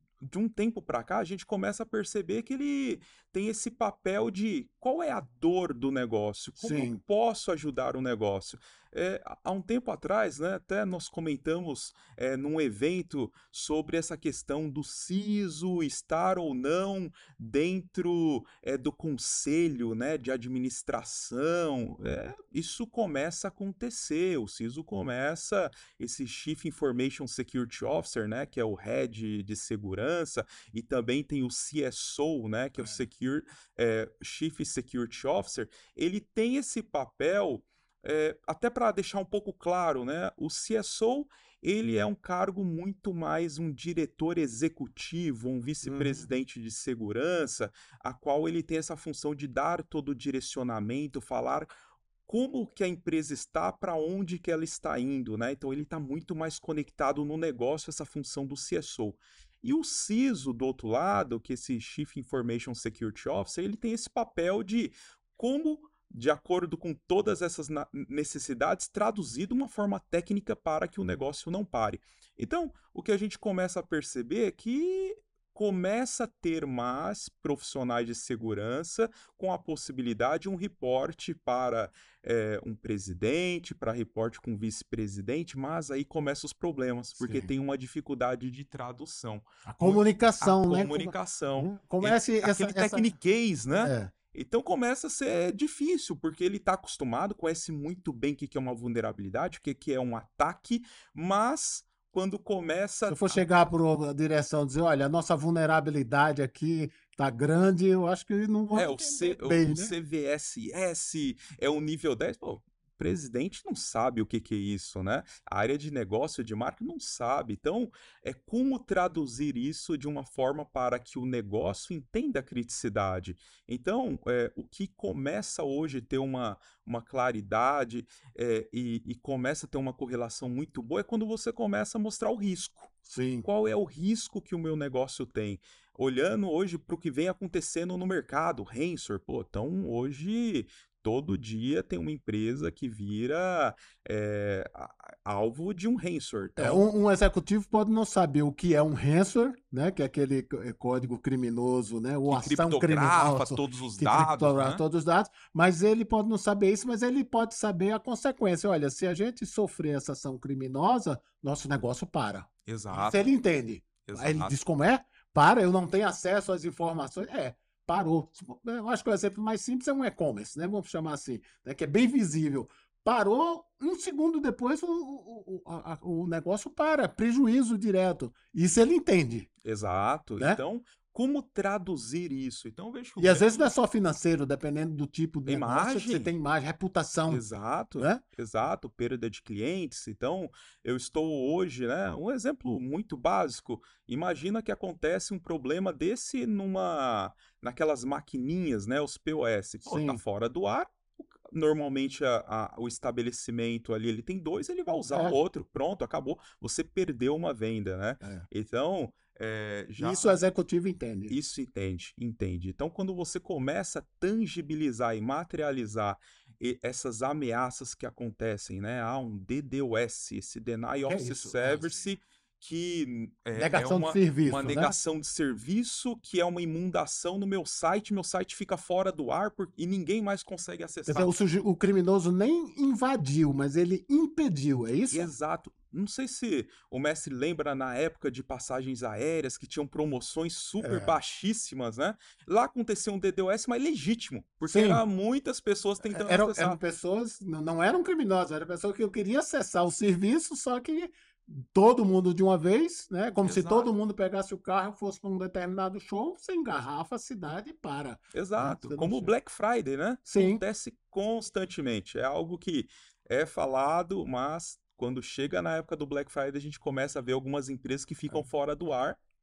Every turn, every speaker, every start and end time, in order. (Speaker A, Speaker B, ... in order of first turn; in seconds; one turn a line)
Speaker A: 0.2-51.7
Speaker B: 6.6-7.0
Speaker B: 32.8-33.0
Speaker B: 45.8-46.3
Speaker A: 52.3-103.5
Speaker B: 87.2-87.5
Speaker B: 89.7-93.1
Speaker B: 93.7-94.1
Speaker B: 103.0-109.9
Speaker A: 108.7-132.9
Speaker B: 133.1-133.5
Speaker A: 133.4-146.9
Speaker B: 146.6-179.5
Speaker A: 152.3-154.8
Speaker A: 162.7-163.3
Speaker A: 164.1-164.6
Speaker A: 179.6-183.7
Speaker B: 183.2-187.4
Speaker A: 185.5-186.3
Speaker A: 187.3-210.4
Speaker B: 188.0-188.2
Speaker B: 199.9-200.2
Speaker B: 205.1-205.4
Speaker B: 208.2-208.5
Speaker B: 210.0-211.3
Speaker A: 211.3-231.3
Speaker B: 221.1-222.0
Speaker B: 223.5-224.9
Speaker B: 231.1-235.3
Speaker A: 235.1-246.8
Speaker B: 240.8-241.2
Speaker B: 244.7-245.0
Speaker B: 246.1-259.3
Speaker A: 253.4-253.9
Speaker A: 258.3-269.2
Speaker B: 260.2-260.6